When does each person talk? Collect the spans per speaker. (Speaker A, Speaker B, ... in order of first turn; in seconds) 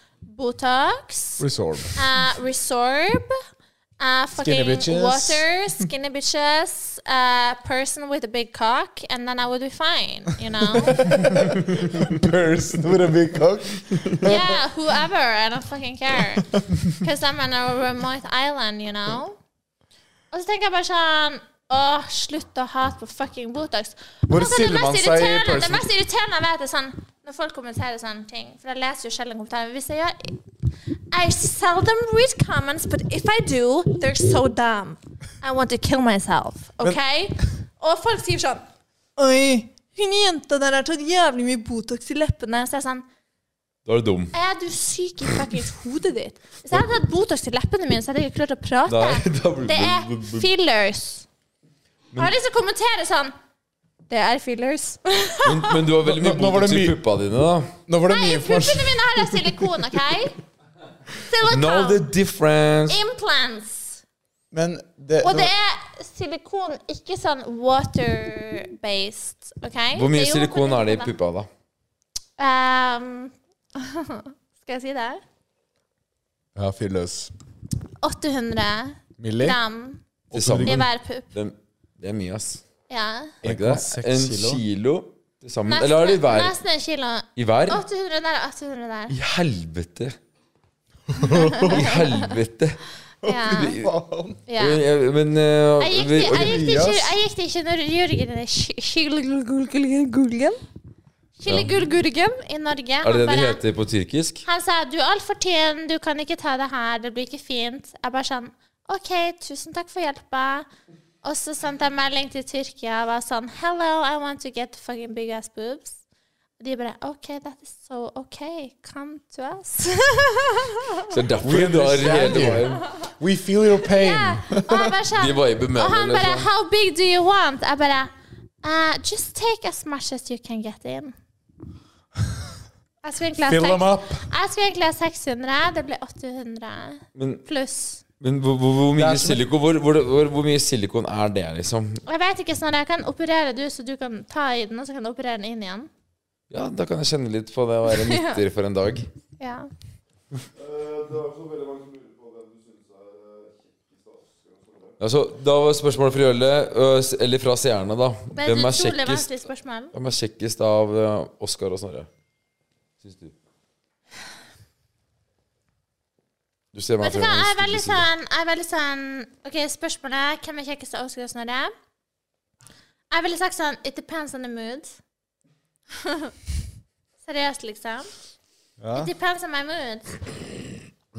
Speaker A: 0.2-1.4, 1.9-3.3, 4.0-11.5, 14.2-19.4, 20.3-30.4, 31.1-38.6, 39.2-43.0, 44.3-51.3, 52.2-53.3, 54.1-55.7, 58.1-60.4, 61.2-62.0, 62.9-64.0, 65.2-71.1, 72.4-75.2, 78.0-80.0, 80.6-81.2, 82.9-83.3, 85.7-89.1, 91.2-92.2, 93.2-93.8, 94.5-94.8, 95.8-100.6, 101.4-103.6, 104.4-110.7, 111.2-116.0, 116.6-121.0, 123.9-128.1, 128.6-131.1, 133.0-138.0, 142.1-145.9, 147.9-148.4, 149.4-149.7, 158.3-159.9, 167.0-171.7, 173.1-175.0, 176.0-176.3, 177.2-178.1, 178.9-180.2
Speaker B: 1.4-2.0, 4.3-5.4, 10.8-14.5, 24.3-25.8, 56.0-57.0, 57.9-59.6, 64.5-65.5, 76.5-77.3, 79.2-79.6, 80.3-80.8, 83.4-84.6, 91.1-91.8, 93.2-94.4, 96.2-97.2, 121.4-124.9, 133.4-134.3, 138.9-139.4, 178.8-179.1
Speaker C: 43.9-44.3, 48.9-50.5, 55.4-57.7, 61.4-63.0, 69.9-71.5, 80.3-82.6, 83.4-86.5, 87.3-87.8, 89.1-90.2, 91.6-92.8, 93.5-93.9, 94.6-96.7, 101.5-101.7, 103.0-104.4, 121.1-122.8, 125.2-126.5, 137.2-137.4, 138.2-142.0, 146.5-149.1, 155.0-159.3, 159.9-162.1, 163.0-163.3, 166.7-168.1
Speaker D: 150.5-154.9